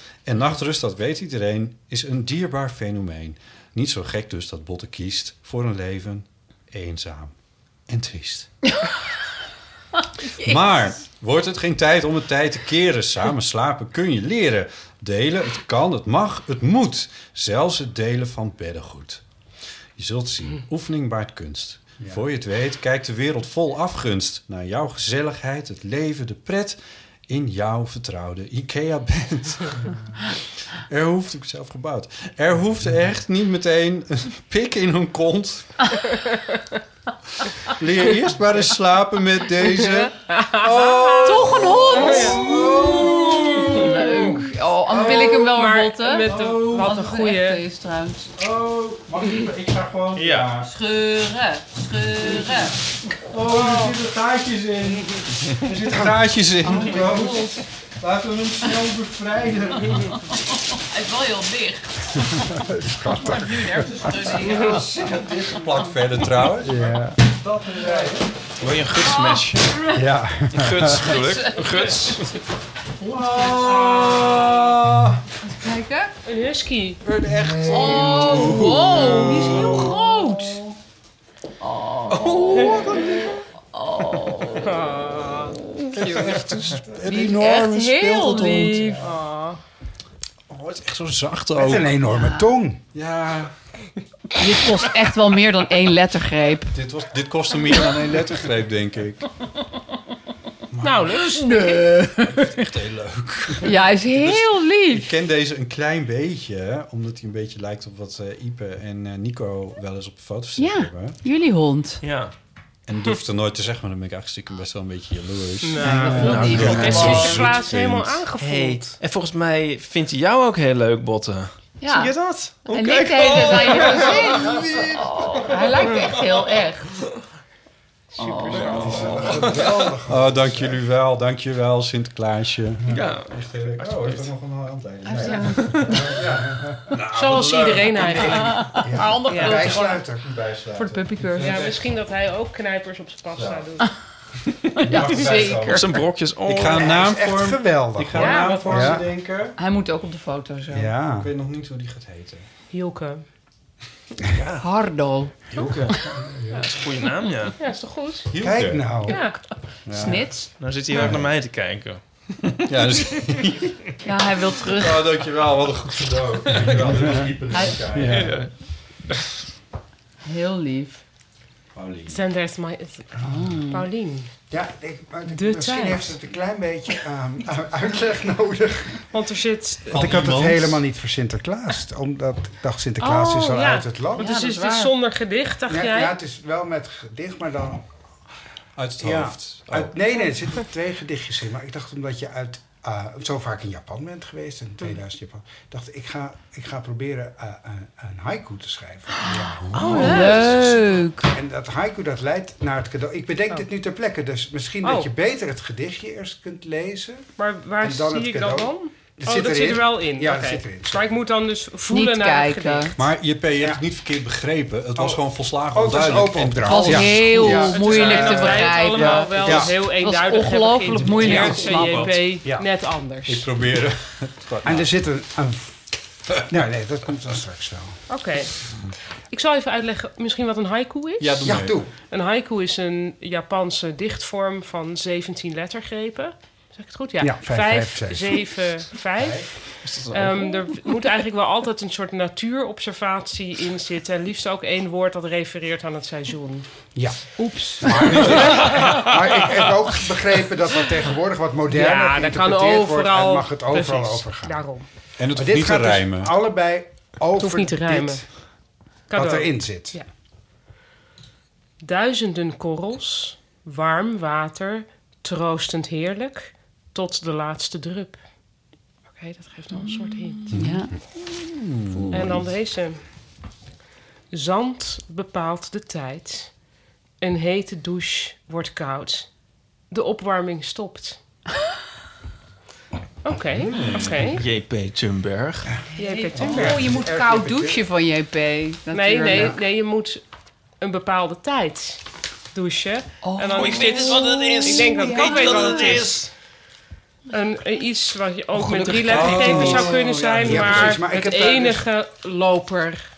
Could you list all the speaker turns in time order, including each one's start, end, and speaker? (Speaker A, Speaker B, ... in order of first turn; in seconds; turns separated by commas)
Speaker A: 0.2-7.3, Speaker A: 7.9-8.5, Speaker A: 10.3-19.2, Speaker B: 10.4-10.8, Speaker A: 20.0-29.8, Speaker C: 22.0-22.2, Speaker A: 30.7-35.8, Speaker A: 37.6-44.3, Speaker D: 39.8-41.4, Speaker B: 41.2-48.3, Speaker D: 41.9-42.4, Speaker D: 43.7-44.4, Speaker A: 44.9-45.5, Speaker D: 45.0-47.6, Speaker A: 46.2-47.0, Speaker A: 48.4-50.7, Speaker E: 50.1-50.5, Speaker B: 50.6-52.8, Speaker A: 52.0-52.7, Speaker A: 53.2-60.1, Speaker D: 53.5-53.9, Speaker B: 56.6-57.6, Speaker B: 59.9-62.4, Speaker C: 62.5-64.1, Speaker B: 63.1-65.1, Speaker A: 63.3-68.3, Speaker C: 66.6-67.2, Speaker E: 68.6-69.8, Speaker B: 68.9-70.1, Speaker C: 69.9-71.1, Speaker E: 70.5-72.3, Speaker B: 71.1-71.7, Speaker A: 73.0-75.2, Speaker B: 73.0-74.6, Speaker B: 75.4-76.1, Speaker D: 76.2-77.0, Speaker A: 77.0-80.7, Speaker C: 77.3-78.9, Speaker B: 77.6-80.6, Speaker B: 81.6-83.0, Speaker A: 82.1-83.3, Speaker B: 83.7-84.9, Speaker D: 84.6-85.5, Speaker A: 85.9-89.0, Speaker B: 86.0-86.3, Speaker B: 87.0-89.0, Speaker D: 88.9-89.6, Speaker A: 90.5-92.0, Speaker C: 91.5-92.8, Speaker B: 92.1-92.5, Speaker A: 92.9-93.5, Speaker B: 94.4-96.7, Speaker A: 96.7-99.3, Speaker A: 100.7-111.2, Speaker D: 100.8-101.7, Speaker B: 101.1-102.7, Speaker B: 103.6-105.1, Speaker B: 110.6-112.0, Speaker E: 112.0-112.3, Speaker A: 112.9-118.2, Speaker D: 115.6-119.0, Speaker C: 115.8-116.9, Speaker B: 115.8-117.5, Speaker E: 116.2-117.3, Speaker E: 118.4-124.6, Speaker B: 121.8-126.9, Speaker A: 124.5-125.0, Speaker E: 125.4-126.4, Speaker B: 128.1-129.0, Speaker D: 128.2-128.8, Speaker E: 128.5-129.8, Speaker C: 128.7-130.8, Speaker A: 128.7-136.0, Speaker E: 132.9-134.3, Speaker B: 135.0-135.9, Speaker E: 135.4-136.0, Speaker C: 135.8-137.0, Speaker A: 136.9-138.7, Speaker D: 137.1-139.8, Speaker B: 138.2-140.1, Speaker C: 138.8-140.2, Speaker A: 139.6-141.9, Speaker B: 140.7-141.6, Speaker D: 141.4-143.8, Speaker A: 143.3-143.6, Speaker B: 144.8-146.0, Speaker A: 144.8-149.6, Speaker E: 145.7-146.9, Speaker C: 146.7-149.0, Speaker D: 148.2-149.0, Speaker B: 149.6-150.9, Speaker C: 150.7-151.3, Speaker A: 151.0-152.4, Speaker D: 152.7-153.2, Speaker E: 154.3-154.6, Speaker B: 154.6-156.0, Speaker E: 155.5-156.0, Speaker C: 156.3-156.7, Speaker E: 156.6-157.5, Speaker D: 157.6-158.3, Speaker A: 158.3-159.0, Speaker C: 158.4-159.2, Speaker D: 159.1-159.3, Speaker A: 159.9-160.2, Speaker B: 159.9-160.5, Speaker E: 160.6-162.6, Speaker A: 160.9-161.3, Speaker A: 162.7-163.9, Speaker B: 164.0-165.1, Speaker A: 164.7-168.4, Speaker B: 167.5-167.8, Speaker C: 167.9-168.4, Speaker E: 168.0-168.5, Speaker B: 170.2-171.0, Speaker A: 171.7-172.2, Speaker D: 172.1-173.1, Speaker C: 173.2-173.5, Speaker B: 173.2-173.9, Speaker D: 173.7-174.3, Speaker C: 174.5-179.1, Speaker D: 175.3-176.1, Speaker D: 179.1-180.0, Speaker A: 179.9-180.8, Speaker C: 179.9-184.3, Speaker D: 183.0-186.2, Speaker B: 184.2-184.9, Speaker C: 185.7-187.9, Speaker A: 188.8-189.9, Speaker C: 189.0-207.3, Speaker A: 199.6-200.1, Speaker D: 199.7-200.5, Speaker B: 199.8-201.3, Speaker D: 204.8-205.1, Speaker D: 207.4-212.9, Speaker C: 207.8-211.1, Speaker B: 211.9-212.9, Speaker A: 212.9-217.5, Speaker C: 215.0-219.7, Speaker B: 216.6-222.1, Speaker D: 217.3-223.4, Speaker E: 221.2-222.1, Speaker A: 223.3-224.9, Speaker C: 224.6-228.0, Speaker D: 228.1-228.5, Speaker D: 229.3-246.7, Speaker A: 231.2-231.9, Speaker C: 231.4-231.9, Speaker C: 237.2-238.5, Speaker C: 239.2-239.5, Speaker E: 239.8-240.6, Speaker C: 246.9-254.6, Speaker D: 248.1-248.8, Speaker D: 251.7-254.8, Speaker A: 255.2-256.3, Speaker C: 255.3-258.3, Speaker D: 257.4-258.2, Speaker D: 259.1-260.1, Speaker C: 259.1-260.0, Speaker D: 261.8-268.3, Speaker D: 269.1-270.6, Speaker B: 270.5-270.9, Speaker A: 270.5-272.5, Speaker B: 271.9-272.4, Speaker D: 272.1-273.0, Speaker D: 274.3-276.6, Speaker D: 277.2-279.3, Speaker D: 279.9-281.2, Speaker D: 283.2-284.4, Speaker A: 283.6-284.3, Speaker E: 284.3-285.7, Speaker B: 285.9-289.6, Speaker D: 286.0-286.8, Speaker C: 286.3-287.8, Speaker D: 288.9-290.2, Speaker D: 290.8-292.0, Speaker D: 292.5-296.2, Speaker B: 293.2-296.1, Speaker E: 293.6-296.3, Speaker D: 297.3-303.0, Speaker E: 298.6-299.9, Speaker A: 299.0-301.0, Speaker C: 300.4-301.8